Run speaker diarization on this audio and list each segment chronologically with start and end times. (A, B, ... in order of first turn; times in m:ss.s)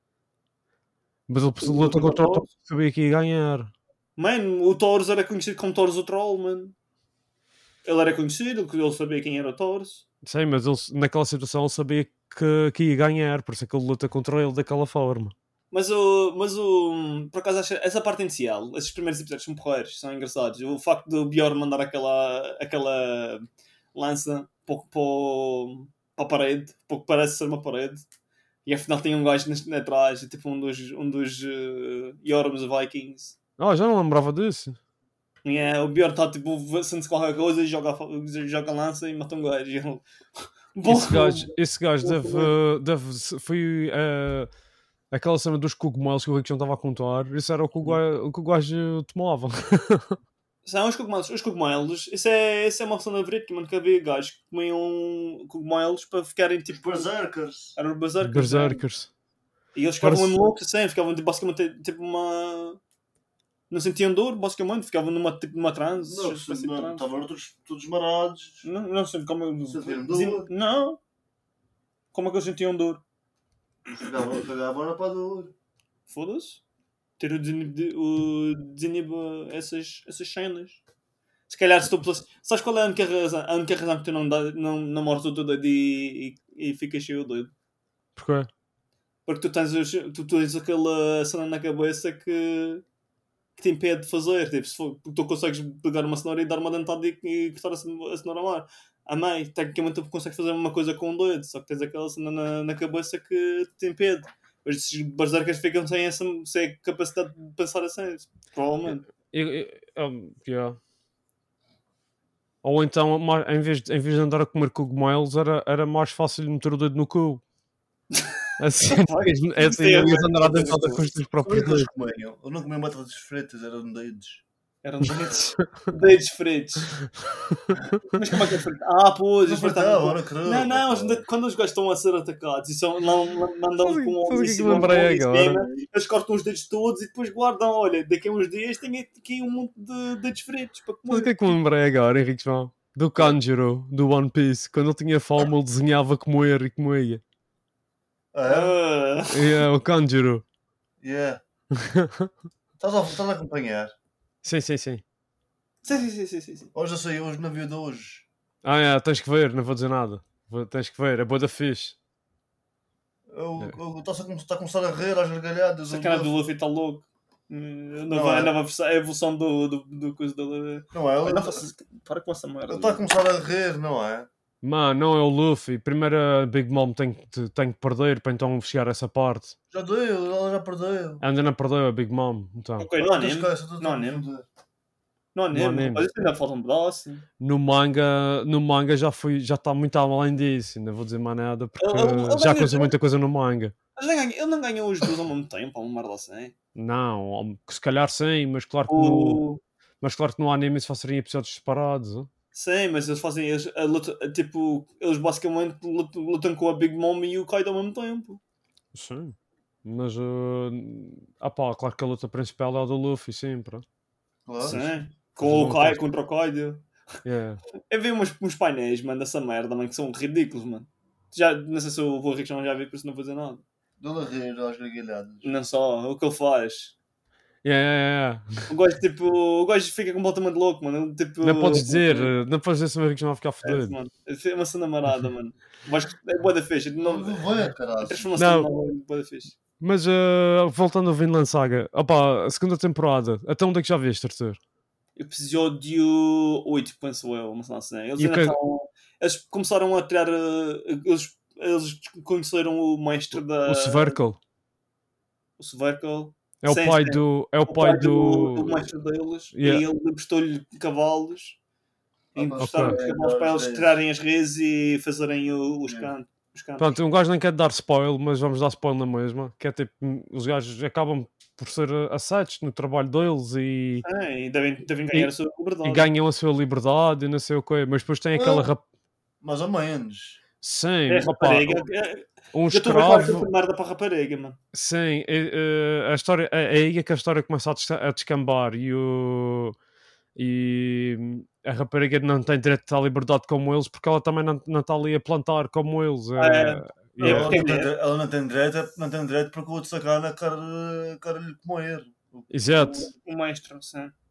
0:01.3-0:03.7 A
0:01.6-0:02.4 B
0:04.2-0:06.7 B
0:07.8-0:10.0 B
0:10.2-0:15.3 A
0:15.7-0:28.0 B
0:28.6-0:33.4 B
0:33.6-0:34.8 A
0:35.4-0:40.0 B
0:40.7-0:42.5 B
0:40.9-0:44.5 A
0:45.1-0:50.1 A
0:50.6-0:57.1 B
0:56.7-0:57.8 C
0:57.8-0:58.8 B
0:58.2-0:59.1 A
0:59.7-1:02.8 B
1:00.0-1:00.3 A
1:03.7-1:07.0 B
1:06.0-1:08.6 C
1:08.6-1:11.0 B
1:09.7-1:10.5 C
1:12.1-1:13.0 B
1:13.9-1:15.5 C
1:16.1-1:16.6 B
1:17.2-1:20.8 B
1:21.5-1:27.5 B
1:28.2-1:28.5 A
1:29.2-1:32.8 B
1:33.6-1:49.0 B
1:49.3-1:50.8 A
1:52.6-1:57.4 A
1:58.6-2:01.9 A
1:58.9-2:01.1 B
2:01.4-2:04.4 C
2:04.8-2:06.9 B
2:08.1-2:21.6 B
2:09.4-2:11.2 C
2:13.8-2:15.6 A
2:21.1-2:27.2 A
2:28.3-2:28.7 C
2:28.5-2:29.6 B
2:29.3-2:30.4 A
2:31.0-2:31.4 C
2:31.7-2:32.3 A
2:32.8-2:33.9 C
2:34.4-2:35.0 A
2:35.8-2:36.7 B
2:36.7-2:38.2 C
2:38.6-2:42.0 A
2:43.3-2:46.3 C
2:45.9-2:53.1 B
2:48.1-2:48.5 C
2:50.9-2:51.7 C
2:52.7-2:54.3 C
2:54.6-2:59.5 A
2:59.7-3:01.2 C
3:01.2-3:02.9 A
3:02.8-3:04.3 B
3:03.0-3:04.4 C
3:05.3-3:07.2 B
3:05.5-3:06.0 A
3:07.4-3:13.7 A
3:11.8-3:12.9 B
3:14.0-3:16.5 B
3:16.8-3:19.4 A
3:18.9-3:19.6 B
3:20.0-3:22.3 A
3:22.5-3:28.4 B
3:28.9-3:33.8 A
3:34.4-3:35.0 C
3:34.6-3:36.8 B
3:35.4-3:36.0 A
3:37.2-3:37.6 A
3:37.9-3:43.6 B
3:44.0-3:45.5 C
3:45.4-3:46.9 B
3:47.6-3:48.6 A
3:48.7-3:52.3 B
3:51.4-3:54.0 A
3:53.6-3:57.4 B
3:57.0-3:58.3 C
3:58.0-3:59.5 B
3:58.4-3:58.7 A
3:59.8-4:04.6 A
4:05.2-4:14.2 B
4:08.2-4:08.6 A
4:13.3-4:14.4 A
4:15.6-4:21.6 B
4:16.6-4:18.9 A
4:19.5-4:19.8 A
4:22.3-4:24.0 C
4:22.3-4:27.0 B
4:22.6-4:22.9 A
4:25.9-4:26.1 C
4:26.8-4:34.0 A
4:34.0-4:36.1 B
4:35.8-4:38.8 A
4:38.3-4:38.7 C
4:39.4-4:40.4 C
4:40.6-4:41.8 A
4:41.1-4:44.6 B
4:42.5-4:43.5 A
4:44.7-4:49.7 A
4:50.4-4:57.6 A
4:56.4-4:57.9 B
4:57.2-5:02.5 C
5:02.5-5:03.1 A
5:02.7-5:04.1 B